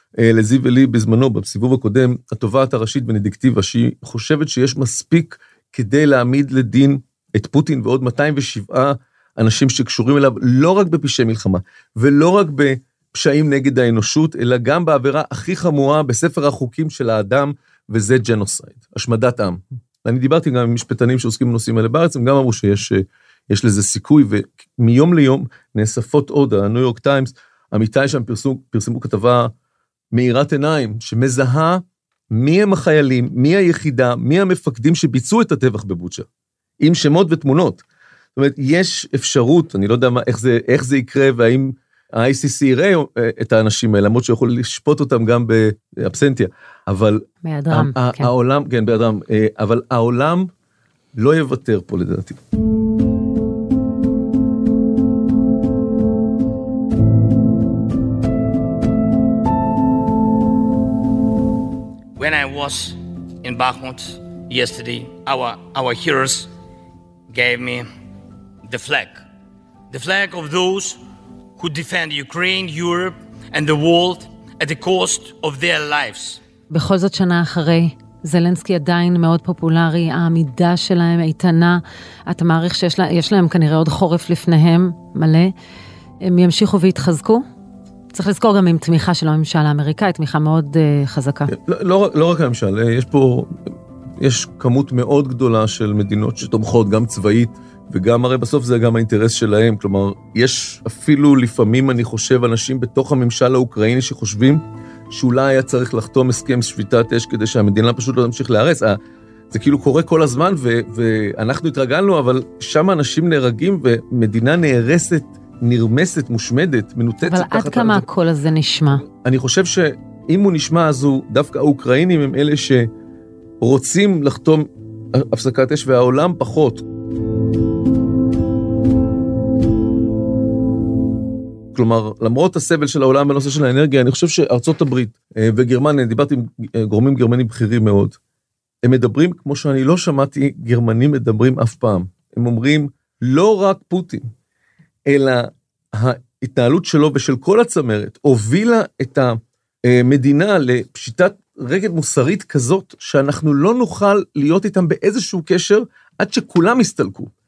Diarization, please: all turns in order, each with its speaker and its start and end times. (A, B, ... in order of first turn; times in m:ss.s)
0:00.2-0:29.5 A
0:30.1-0:36.3 A
0:36.8-0:37.8 A
0:38.4-0:50.5 A
0:47.4-0:48.3 B
0:51.2-0:52.4 A
1:02.2-1:06.5 C
1:07.3-1:07.9 C
1:08.6-1:09.2 C
1:09.9-1:11.0 C
1:11.6-1:16.4 C
1:16.7-1:25.5 B
1:26.2-1:27.4 B
1:28.1-1:31.5 B
1:31.5-1:33.5 A
1:34.2-1:49.0 A
1:49.5-1:58.0 A
1:57.2-1:59.0 B
1:59.1-2:02.9 A
2:03.6-2:06.8 A
2:11.7-2:18.2 A
2:18.8-2:24.3 A
2:25.1-2:37.3 A